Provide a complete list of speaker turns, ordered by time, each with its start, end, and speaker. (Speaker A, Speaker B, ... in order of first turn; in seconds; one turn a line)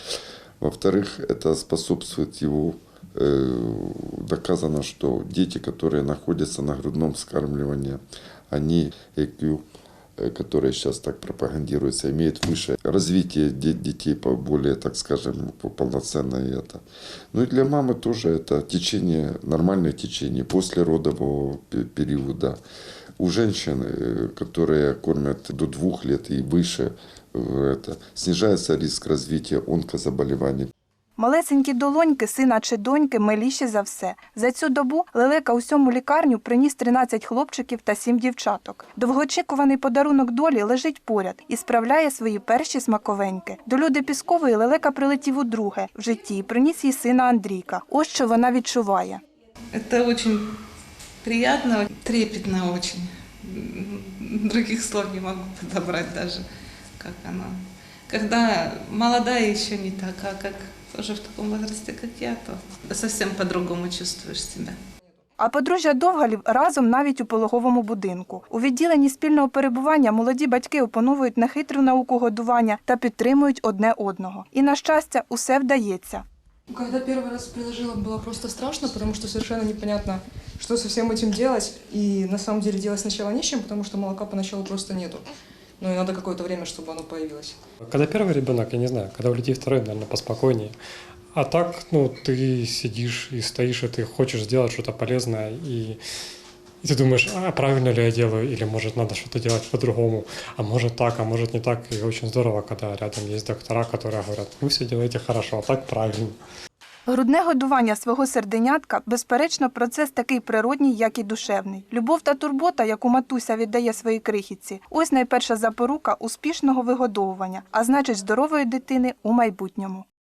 Speaker A: 0.6-9.6
Speaker A: 10.2-22.6
Speaker A: 23.2-30.7
Speaker B: 31.2-49.2
Speaker C: 49.7-50.5
Speaker C: 51.2-56.5
Speaker C: 57.0-64.8
Speaker B: 65.4-76.2
Speaker D: 79.5-80.7
Speaker D: 81.4-85.2
Speaker D: 86.0-87.5
Speaker E: 87.8-90.8
Speaker E: 91.3-96.0
Speaker E: 96.8-106.4
Speaker B: 107.1-120.0